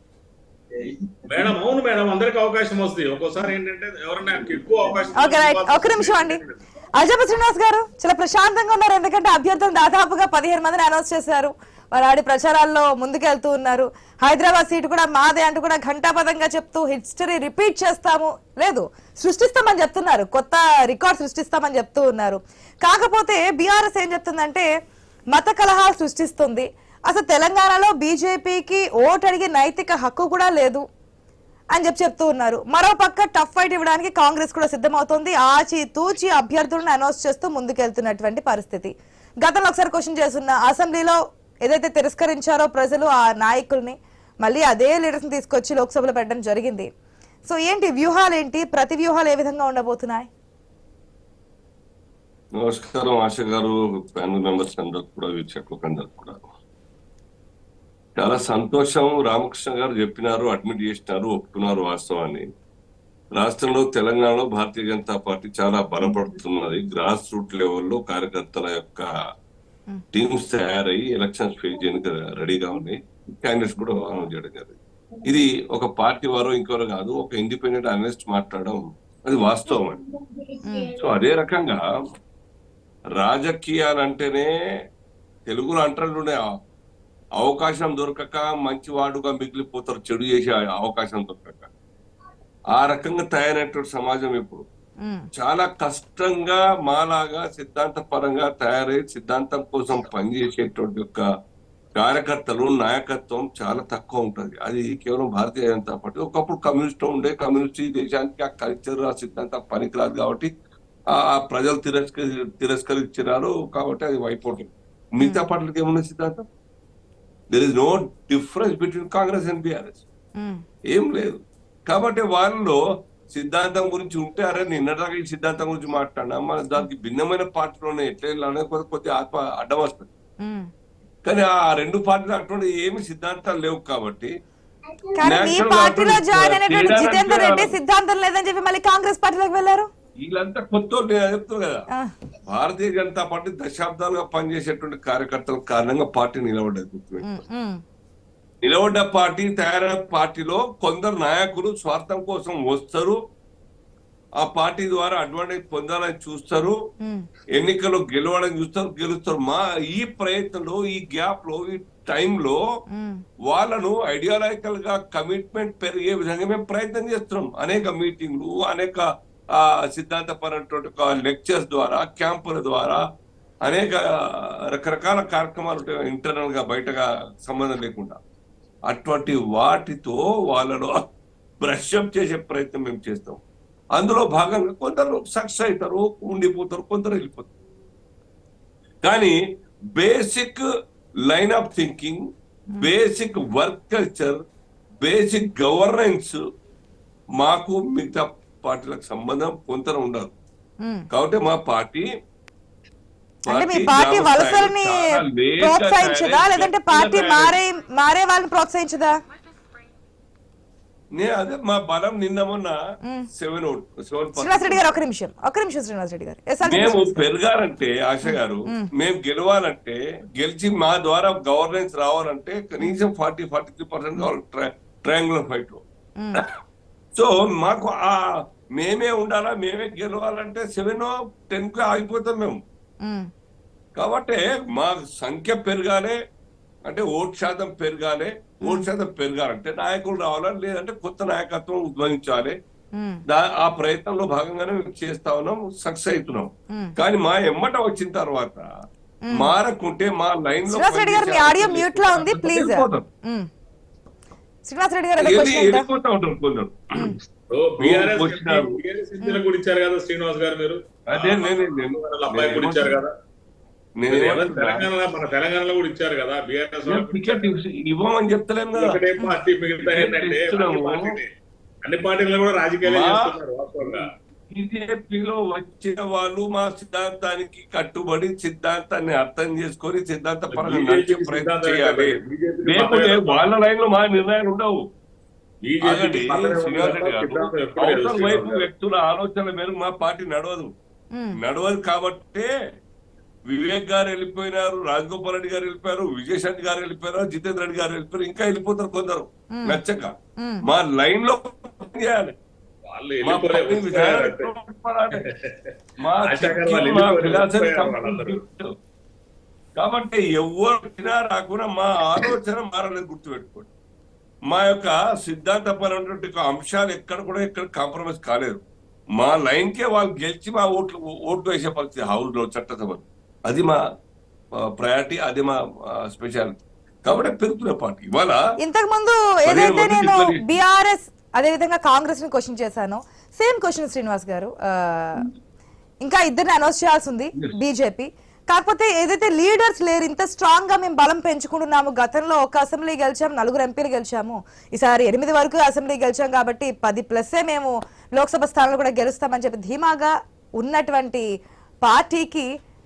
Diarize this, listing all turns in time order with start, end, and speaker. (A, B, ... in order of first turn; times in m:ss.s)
0:01.3-0:06.6 A
0:05.1-0:06.4 B
0:07.0-0:24.7 B
0:25.3-0:30.8 B
0:31.7-0:38.9 B
0:39.4-0:46.9 B
0:47.4-0:50.3 B
0:52.6-0:56.5 C
0:58.2-1:02.4 C
1:03.4-1:09.1 C
1:10.1-1:20.0 C
1:20.6-1:21.0 B
1:21.0-1:21.8 C
1:23.2-1:24.5 C
1:25.5-1:26.4 C
1:27.4-1:31.7 C
1:32.7-1:34.6 C
1:35.4-1:41.2 C
1:42.0-1:50.5 C
1:51.1-1:56.4 C
1:55.2-1:55.4 B
1:57.5-2:00.0 C
2:00.9-2:02.8 C
2:03.3-2:10.1 C
2:10.4-2:10.7 B
2:11.2-2:14.3 C
2:15.1-2:19.9 B
2:15.2-2:17.8 C
2:20.2-2:21.8 C
2:22.5-2:27.4 C
2:27.2-2:27.8 B
2:28.6-2:33.2 C
2:34.4-2:36.8 C
2:37.6-2:42.6 C
2:42.9-2:43.2 B
2:43.5-2:53.0 C
2:53.6-2:58.2 C
2:58.9-3:01.0 C
3:01.6-3:03.4 C
3:04.0-3:07.5 C
3:09.0-3:09.4 C
3:10.0-3:10.6 C
3:11.3-3:12.2 C
3:12.8-3:14.4 C
3:15.0-3:16.4 C
3:17.4-3:20.3 C
3:21.1-3:22.1 C
3:23.4-3:27.6 C
3:23.5-3:29.2 B
3:31.2-3:32.8 C
3:33.3-3:35.0 C
3:34.4-3:37.3 B
3:36.6-3:45.8 C
3:38.2-3:38.9 B
3:47.1-3:48.2 C
3:48.8-3:52.6 C
3:53.0-3:53.3 B
3:54.0-3:56.2 C
3:56.8-4:02.6 C
3:58.6-3:58.9 B
4:02.9-4:03.2 B
4:03.3-4:08.6 C
4:09.2-4:09.5 B
4:09.3-4:13.1 C
4:10.7-4:13.4 B
4:14.6-4:15.9 B
4:15.2-4:16.9 C
4:17.5-4:23.1 A
4:17.8-4:18.8 C
4:21.1-4:23.0 C
4:24.0-4:24.9 C
4:24.1-4:27.5 A
4:26.8-4:28.9 C
4:28.7-4:31.3 A
4:29.8-4:31.2 C
4:31.8-4:34.0 A
4:32.8-4:44.8 C
4:40.5-4:43.5 A
4:45.6-4:48.7 A
4:45.8-4:50.7 C
4:51.4-4:52.5 C
4:53.5-5:00.1 C
4:59.5-4:59.8 B
5:00.6-5:02.3 C
5:02.9-5:04.5 A
5:03.2-5:05.2 C
5:05.1-5:05.7 A
5:06.0-5:08.7 C
5:06.2-5:08.4 A
5:09.8-5:13.7 C
5:14.5-5:18.6 C
5:19.2-5:23.8 C
5:24.7-5:28.4 C
5:28.6-5:35.2 B
5:29.4-5:30.5 C
5:36.0-5:51.2 B
5:51.8-5:52.5 B